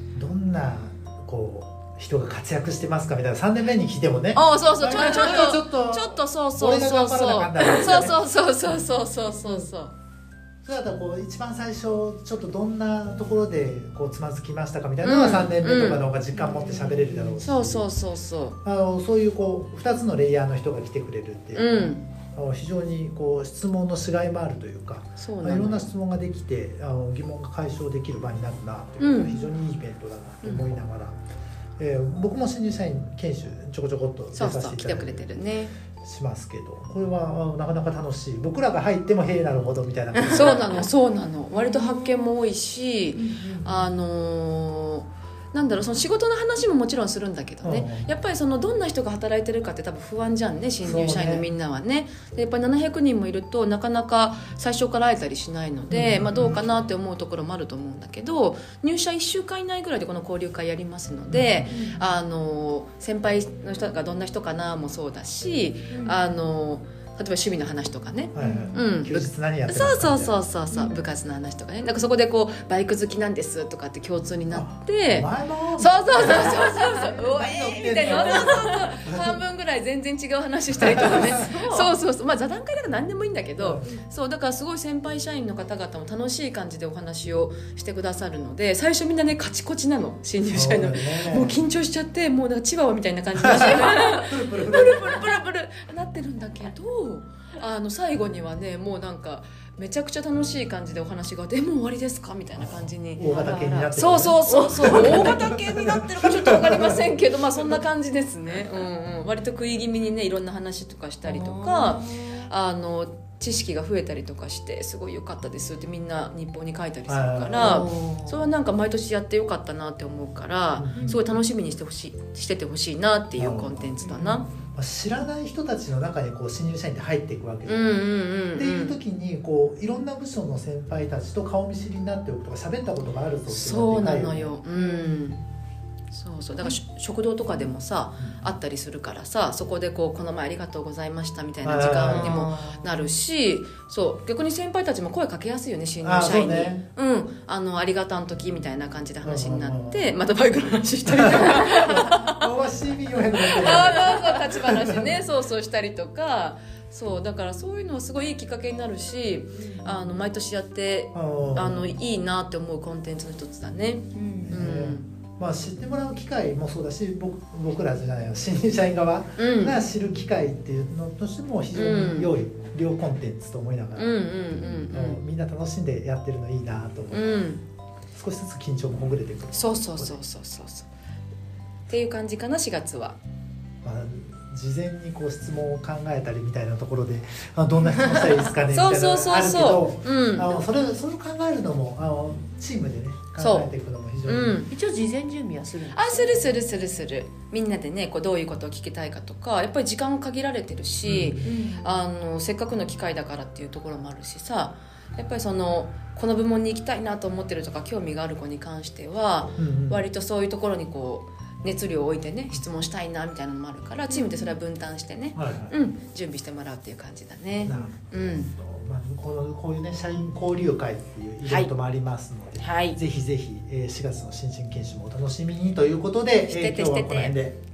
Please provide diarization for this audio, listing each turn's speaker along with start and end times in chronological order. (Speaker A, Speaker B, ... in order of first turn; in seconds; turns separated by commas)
Speaker A: 0.1-8.2, Speaker B: 4.3-9.9, Speaker A: 10.7-17.9, Speaker B: 15.0-16.1, Speaker C: 16.3-17.4, Speaker B: 17.4-18.6, Speaker A: 18.6-31.2, Speaker B: 21.6-22.1, Speaker B: 25.2-25.9, Speaker B: 29.0-29.4, Speaker B: 30.4-30.7, Speaker A: 31.8-35.4, Speaker B: 34.3-35.7, Speaker A: 36.0-40.9, Speaker B: 40.2-103.4, Speaker C: 41.5-42.0, Speaker C: 43.1-43.9, Speaker A: 47.6-48.1, Speaker A: 50.8-51.5, Speaker A: 55.9-56.7, Speaker A: 61.3-61.7, Speaker C: 61.7-62.0, Speaker C: 65.9-66.2, Speaker A: 68.3-70.4, Speaker C: 68.4-68.8, Speaker A: 74.5-79.4, Speaker C: 76.4-77.2, Speaker C: 78.0-78.8, Speaker A: 80.8-81.5, Speaker C: 80.9-81.9, Speaker A: 83.6-84.0, Speaker A: 90.5-91.6, Speaker A: 93.4-95.2, Speaker A: 102.6-107.0, Speaker C: 103.2-105.5, Speaker B: 103.9-124.5, Speaker C: 111.2-112.4, Speaker A: 117.1-117.8, Speaker C: 117.6-118.4, Speaker A: 120.8-121.2, Speaker A: 123.3-123.9, Speaker C: 124.0-124.5, Speaker A: 124.7-134.6, Speaker B: 127.7-128.9, Speaker B: 133.5-135.4, Speaker C: 134.7-135.2, Speaker B: 136.1-152.4, Speaker A: 141.6-142.5, Speaker C: 142.1-142.9, Speaker A: 146.0-146.8, Speaker A: 149.2-150.1, Speaker A: 151.1-155.0, Speaker B: 153.4-165.1, Speaker C: 153.8-154.4, Speaker C: 159.6-159.8, Speaker A: 161.1-162.0, Speaker C: 164.2-164.6, Speaker A: 164.4-174.2, Speaker B: 169.4-169.8, Speaker B: 171.7-172.3, Speaker B: 173.9-175.2, Speaker A: 174.9-177.5, Speaker B: 177.1-177.6, Speaker A: 178.1-180.2, Speaker B: 179.5-180.9, Speaker B: 181.9-183.2, Speaker A: 183.8-194.6, Speaker B: 188.7-190.6, Speaker B: 193.4-193.7, Speaker B: 194.2-194.7, Speaker C: 194.7-196.5, Speaker B: 195.9-218.5, Speaker A: 201.0-201.5, Speaker C: 201.4-201.8, Speaker A: 209.6-210.0, Speaker C: 214.1-214.6, Speaker A: 215.3-215.8, Speaker A: 217.6-227.6, Speaker B: 221.4-221.7, Speaker B: 222.6-223.0, Speaker B: 226.4-227.4